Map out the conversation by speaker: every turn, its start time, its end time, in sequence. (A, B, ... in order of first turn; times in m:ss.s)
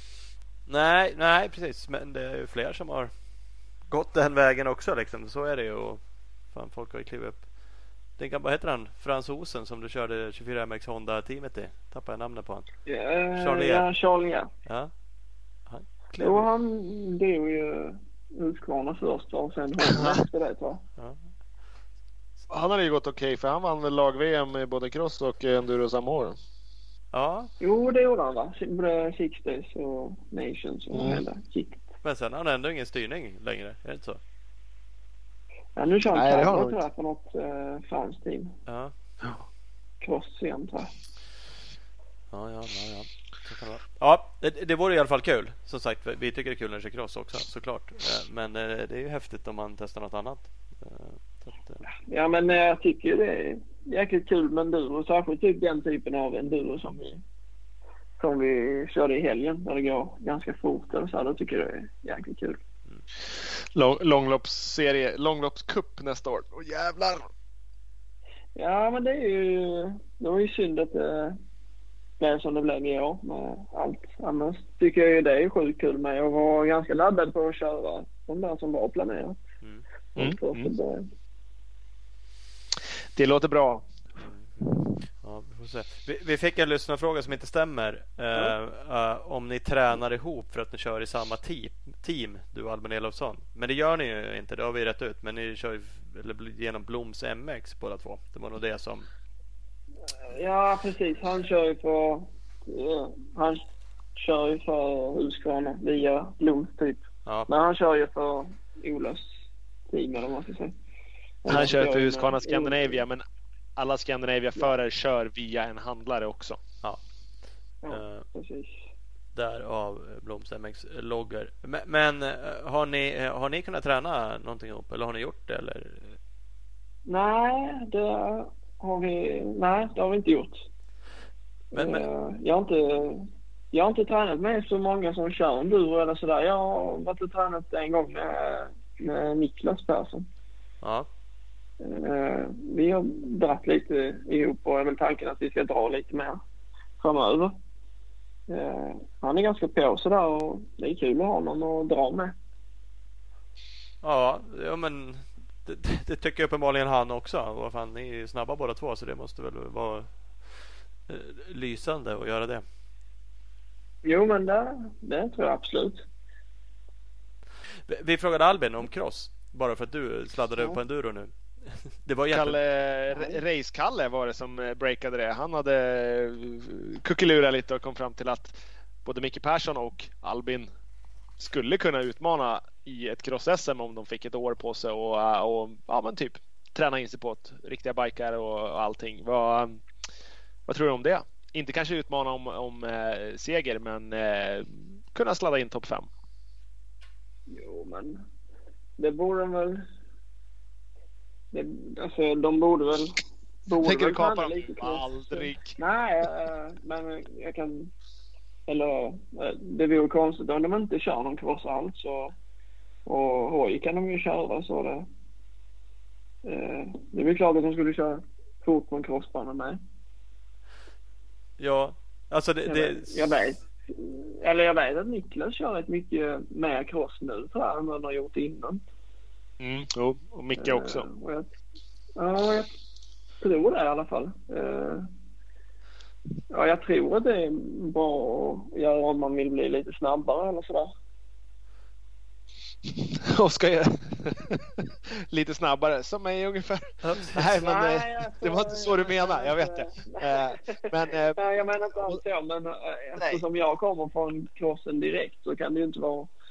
0:00.7-0:03.1 A
0:03.9-0:07.5 A
0:08.2-0:12.7 A
0:12.9-0:14.5 B
0:13.4-0:13.9 A
0:14.7-0:14.9 A
0:15.7-0:16.5 A
0:16.2-0:20.8 B
0:19.8-0:20.2 C
0:22.5-0:26.4 C
0:27.1-0:27.5 A
0:27.6-0:31.8 B
0:30.9-0:31.2 C
0:32.0-0:34.2 A
0:35.8-0:38.6 B
0:36.1-0:36.8 C
0:38.7-0:38.9 A
0:40.0-0:40.9 B
0:42.3-0:51.8 A
0:51.9-0:57.2 B
0:58.2-1:02.6 B
1:03.7-1:07.3 C
1:08.6-1:11.4 B
1:12.2-1:19.4 B
1:20.2-1:21.1 B
1:20.2-1:20.7 C
1:23.2-1:23.9 C
1:24.2-1:39.1 A
1:40.3-1:49.3 B
1:49.9-1:50.8 B
1:51.4-1:53.0 B
1:51.5-1:53.2 C
1:53.8-1:56.6 C
1:57.8-1:58.8 B
1:57.9-1:58.3 A
1:59.4-2:06.2 A
2:07.1-2:10.7 B
2:11.7-2:20.3 B
2:11.7-2:12.0 A
2:20.8-2:21.1 A
2:21.8-2:26.4 B
2:27.0-2:27.6 B
2:28.5-2:32.4 B
2:34.0-2:42.6 A
2:44.0-2:46.0 B
2:47.9-2:52.6 A
2:52.3-3:00.7 C
3:01.4-3:09.8 C
3:10.7-3:16.1 C
3:17.5-3:18.2 B
3:19.0-3:19.9 B
3:21.5-3:27.9 B
3:23.7-3:25.8 C
3:28.7-3:32.3 B
3:33.1-3:35.1 B
3:36.4-3:39.8 B
3:41.6-3:43.3 A
3:42.6-3:48.8 B
3:49.6-3:51.1 C
3:50.6-3:51.5 B
3:52.2-3:52.7 B
3:53.4-3:55.1 B
3:56.5-4:00.9 B
4:02.9-4:11.4 C
4:07.0-4:07.5 A
4:07.5-4:16.3 B
4:13.2-4:13.4 C